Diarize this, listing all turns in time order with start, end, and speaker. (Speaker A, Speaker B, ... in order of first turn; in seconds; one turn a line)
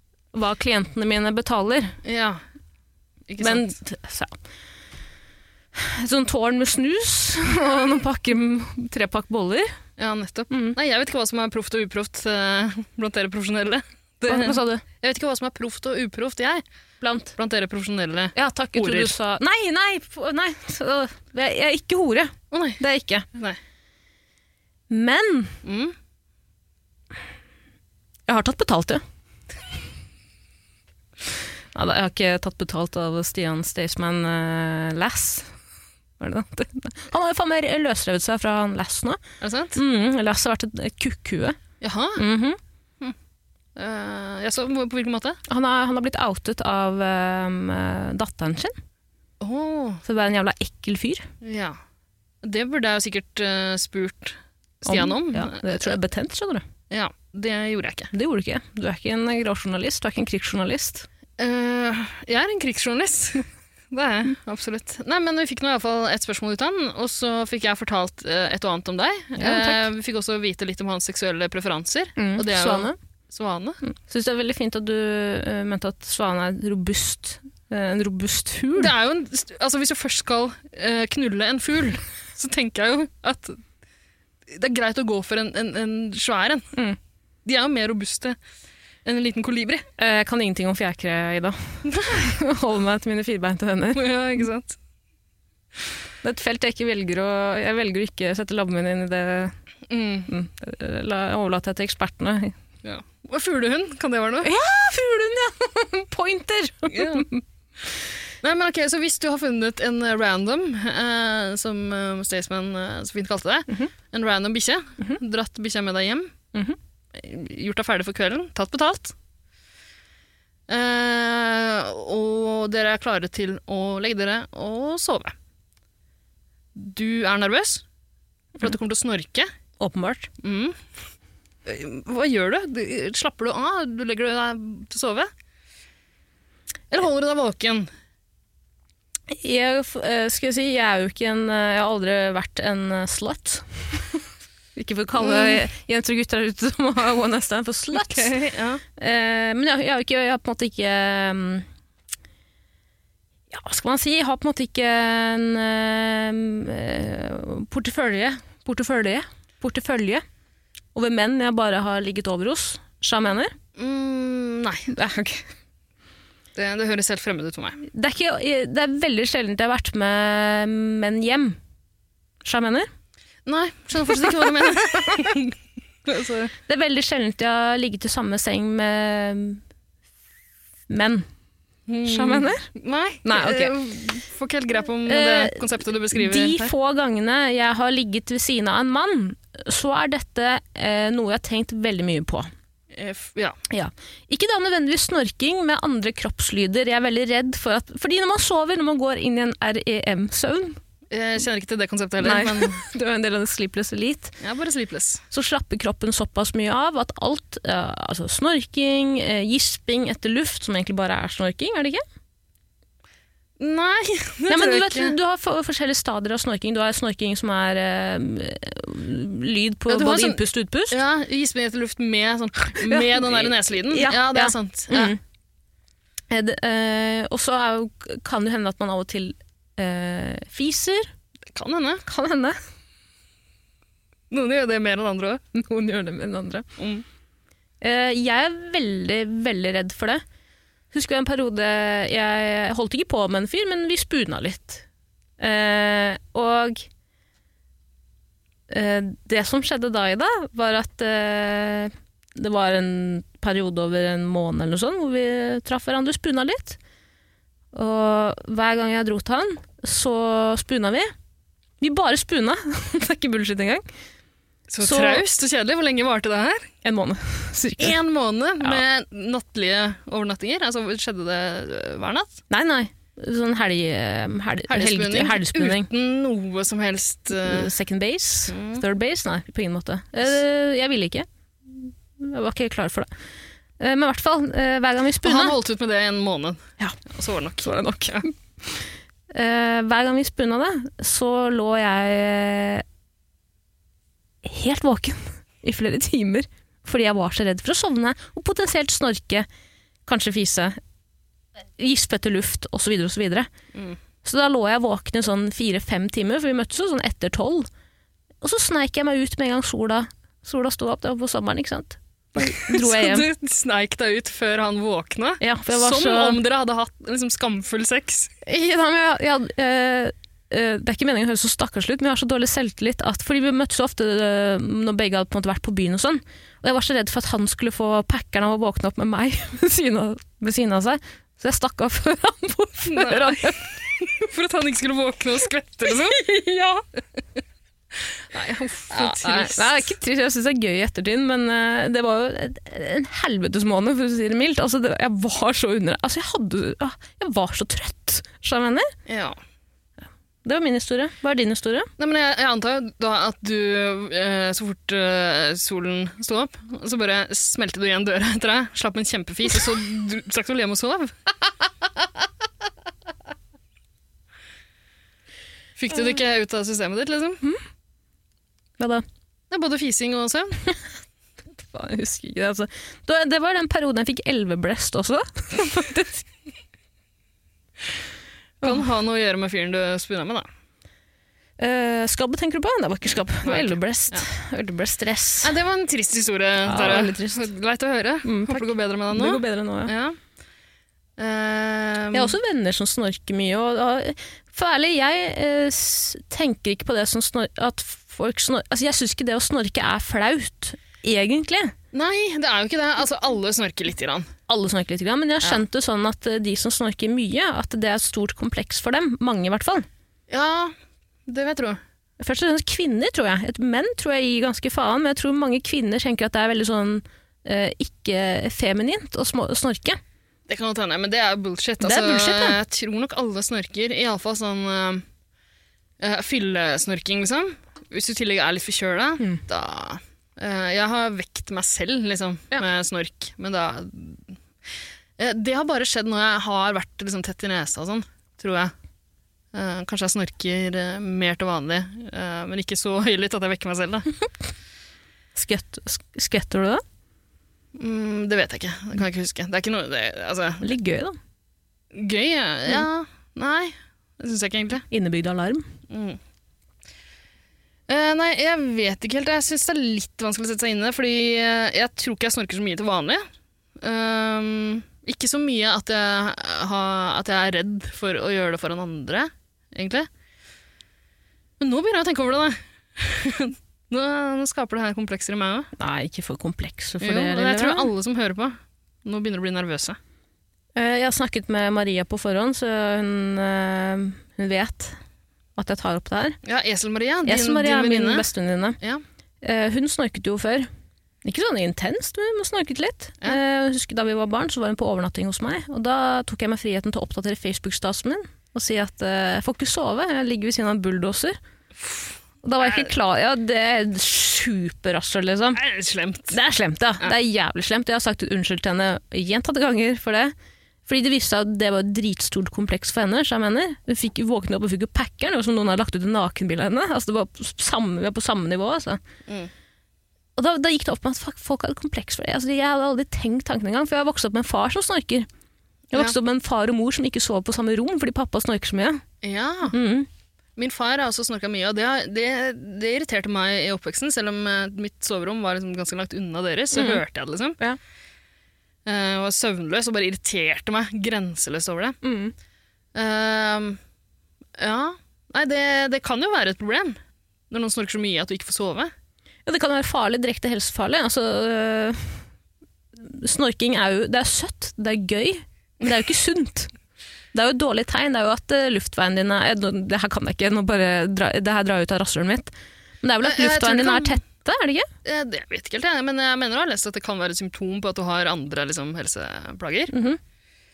Speaker A: 0.3-2.0
Speaker B: 2.0-2.4
Speaker B: 3.3-3.7
Speaker A: 3.4-4.3
Speaker A: 5.8-9.7
Speaker B: 10.0-16.6
Speaker A: 10.5-10.8
Speaker A: 14.2-14.8
Speaker A: 17.0-17.3
Speaker B: 17.4-19.1
Speaker A: 18.3-23.2
Speaker B: 22.5-22.8
Speaker A: 24.9-25.6
Speaker B: 25.6-25.9
Speaker A: 28.3-29.0
Speaker A: 31.7-35.5
Speaker A: 36.2-39.2
Speaker B: 39.4-39.8
Speaker A: 39.7-41.6
Speaker B: 41.8-42.2
Speaker A: 42.2-42.6
Speaker B: 43.8-45.4
Speaker A: 45.5-48.7
Speaker B: 49.4-50.0
Speaker A: 50.0-51.3
Speaker B: 51.4-51.8
Speaker B: 52.4-55.9
Speaker A: 54.9-56.6
Speaker B: 56.9-58.1
Speaker A: 58.1-61.1
Speaker B: 61.4-73.8
Speaker A: 69.4-69.9
Speaker A: 72.2-73.0
Speaker A: 73.8-78.9
Speaker B: 78.8-83.6
Speaker B: 84.5-86.7
Speaker B: 87.4-88.4
Speaker B: 89.0-89.9
Speaker A: 90.0-94.4
Speaker B: 91.9-92.2
Speaker B: 94.0-94.8
Speaker A: 96.2-99.5
Speaker B: 99.9-100.3
Speaker A: 100.3-102.5
Speaker B: 102.8-104.5
Speaker A: 104.4-107.4
Speaker B: 106.9-107.2
Speaker B: 108.4-116.3
Speaker B: 117.1-119.1
Speaker B: 120.7-125.3
Speaker B: 126.8-127.8
Speaker B: 128.6-129.5
Speaker A: 129.8-130.3
Speaker B: 130.4-130.8
Speaker B: 131.7-135.3
Speaker B: 136.9-137.9
Speaker A: 139.3-144.2
Speaker A: 144.8-151.7
Speaker B: 145.2-145.6
Speaker B: 147.9-148.8
Speaker A: 153.5-160.2
Speaker A: 160.9-163.5
Speaker B: 163.8-164.9
Speaker A: 164.9-165.4
Speaker B: 166.6-167.8
Speaker A: 167.8-171.6
Speaker A: 172.4-172.9
Speaker B: 173.4-175.5
Speaker A: 174.9-175.3
Speaker B: 176.1-176.5
Speaker A: 176.7-179.6
Speaker A: 180.9-181.2
Speaker B: 181.9-186.7
Speaker A: 182.1-182.7
Speaker A: 183.2-183.7
Speaker A: 185.1-192.5
Speaker B: 192.9-193.6
Speaker A: 193.7-200.8
Speaker B: 201.1-202.8
Speaker A: 202.2-204.3
Speaker B: 204.4-205.2
Speaker A: 205.3-212.0
Speaker B: 213.6-215.2
Speaker A: 214.5-221.0
Speaker B: 219.9-225.1
Speaker A: 222.8-225.2
Speaker A: 226.3-231.1
Speaker B: 231.5-232.0
Speaker A: 232.1-232.6
Speaker B: 234.3-235.4
Speaker A: 235.5-236.7
Speaker B: 236.8-237.0
Speaker A: 237.8-240.2
Speaker A: 240.9-244.8
Speaker A: 245.4-246.8
Speaker A: 248.7-256.8
Speaker A: 257.7-261.1
Speaker A: 261.8-263.8
Speaker B: 264.7-266.7
Speaker A: 264.8-265.2
Speaker A: 266.8-268.0
Speaker B: 267.8-272.3
Speaker A: 272.5-275.9
Speaker B: 274.7-277.7
Speaker A: 277.3-283.1
Speaker B: 278.5-278.8
Speaker A: 283.8-285.5
Speaker B: 285.2-288.2
Speaker A: 287.6-292.8
Speaker A: 294.4-299.5
Speaker A: 300.1-300.8
Speaker A: 301.8-303.5
Speaker A: 304.2-307.7
Speaker A: 308.4-313.3
Speaker B: 312.4-318.3
Speaker A: 315.4-316.4
Speaker A: 318.4-333.6
Speaker B: 332.9-336.2
Speaker A: 335.9-336.8
Speaker B: 338.3-339.8
Speaker A: 338.9-348.9
Speaker B: 349.1-349.4
Speaker A: 350.4-351.9
Speaker B: 352.0-361.1
Speaker B: 365.8-367.4
Speaker A: 368.8-369.0
Speaker B: 369.5-370.6
Speaker A: 371.6-376.3
Speaker A: 378.6-378.9
Speaker B: 378.6-380.5
Speaker A: 381.6-385.5
Speaker B: 383.4-384.2
Speaker B: 385.4-390.2
Speaker A: 386.6-387.5
Speaker A: 388.2-389.9
Speaker B: 391.2-392.3
Speaker A: 392.1-401.7
Speaker B: 401.9-404.3
Speaker A: 404.5-409.9
Speaker B: 410.3-410.8
Speaker B: 411.3-411.8
Speaker A: 412.2-420.0
Speaker B: 420.5-425.0
Speaker A: 421.8-422.6
Speaker B: 426.0-434.3
Speaker B: 435.2-438.7
Speaker B: 439.5-444.1
Speaker A: 445.3-446.8
Speaker B: 447.8-450.6
Speaker A: 450.6-451.1
Speaker B: 451.9-454.9
Speaker A: 454.9-455.6
Speaker B: 455.9-456.2
Speaker B: 457.9-463.2
Speaker B: 463.8-470.1
Speaker B: 471.6-475.7
Speaker A: 475.8-477.9
Speaker B: 477.0-480.0
Speaker A: 480.8-485.0
Speaker A: 485.6-486.4
Speaker B: 486.4-488.2
Speaker A: 487.2-488.8
Speaker A: 489.4-490.7
Speaker A: 491.2-501.4
Speaker B: 501.8-502.1
Speaker A: 502.4-505.6
Speaker B: 502.6-502.9
Speaker B: 505.6-506.4
Speaker A: 506.3-510.3
Speaker A: 510.9-519.0
Speaker A: 520.4-525.3
Speaker A: 525.9-529.0
Speaker B: 529.2-529.7
Speaker A: 529.7-530.1
Speaker B: 530.6-537.6
Speaker A: 536.7-537.0
Speaker B: 538.9-542.0
Speaker A: 542.0-542.3
Speaker B: 542.9-543.8
Speaker B: 544.6-547.0
Speaker B: 547.5-548.9
Speaker A: 549.5-552.2
Speaker A: 553.0-556.7
Speaker A: 557.3-564.9
Speaker B: 563.2-564.2
Speaker B: 565.0-569.9
Speaker A: 569.9-570.2